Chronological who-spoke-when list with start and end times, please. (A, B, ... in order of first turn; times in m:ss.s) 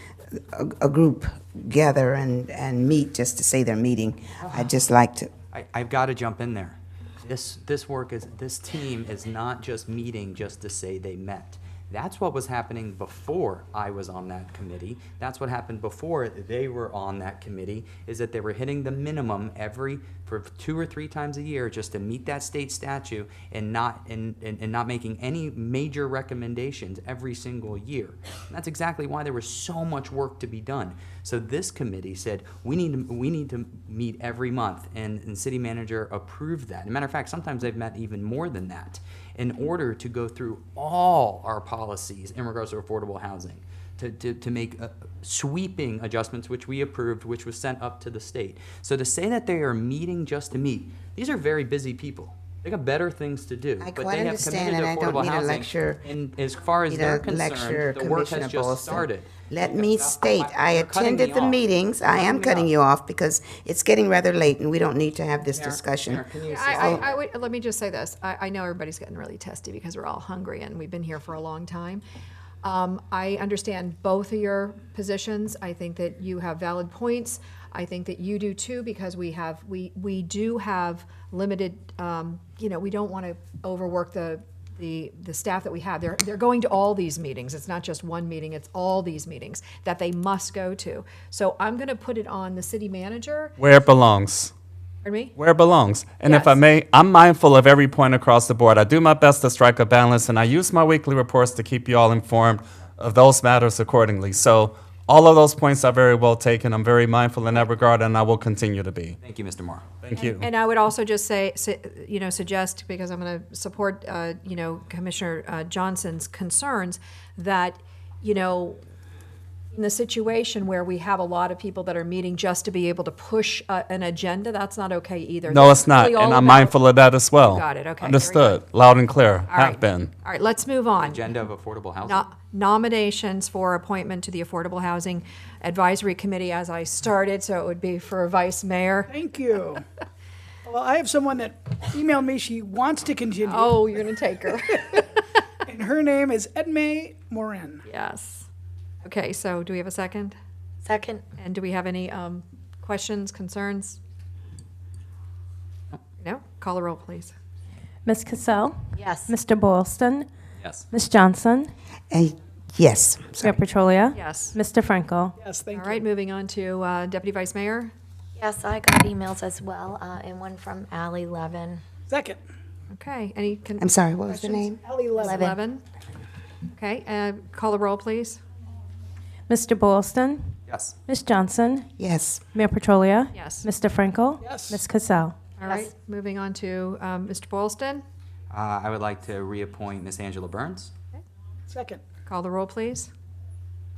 0:00.3-0:05.3 A
0:04.4-0:04.8 B
0:05.5-1:02.7 B
0:53.8-0:56.1 A
0:56.8-1:07.0 A
1:05.5-1:07.2 B
1:06.4-1:12.0 C
1:12.6-1:33.6 C
1:33.6-1:34.5 D
1:35.0-1:35.3 C
1:35.4-1:49.2 D
1:36.2-1:36.6 C
1:49.2-1:49.8 B
1:50.0-1:50.4 D
1:50.2-1:58.8 C
1:59.7-2:06.8 C
2:05.5-2:10.1 D
2:07.4-2:08.6 C
2:09.5-2:11.2 C
2:11.0-2:12.2 B
2:12.0-2:19.1 C
2:19.1-2:19.8 E
2:20.6-2:23.8 E
2:23.4-2:25.2 C
2:25.6-2:27.8 E
2:27.9-2:28.5 C
2:29.0-2:30.3 C
2:30.8-2:31.2 F
2:31.4-2:34.0 C
2:36.2-2:37.3 C
2:38.0-2:40.3 G
2:39.0-2:39.3 F
2:40.6-2:40.8 B
2:40.9-2:41.7 G
2:42.1-2:43.6 A
2:43.4-2:45.4 G
2:44.1-2:44.6 C
2:45.4-2:46.0 E
2:45.7-2:47.9 C
2:48.4-2:51.8 F
2:52.1-2:52.4 E
2:52.9-2:55.8 C
2:53.8-2:54.8 A
2:54.8-2:55.4 E
2:55.2-2:55.6 F
2:56.8-2:58.4 C
2:59.5-3:01.9 G
3:00.7-3:01.0 B
3:02.0-3:02.4 A
3:02.5-3:05.4 G
3:03.3-3:03.7 C
3:04.4-3:04.8 E
3:05.6-3:08.0 C
3:08.5-3:10.9 B
3:11.7-3:12.0 E
3:12.3-3:13.1 C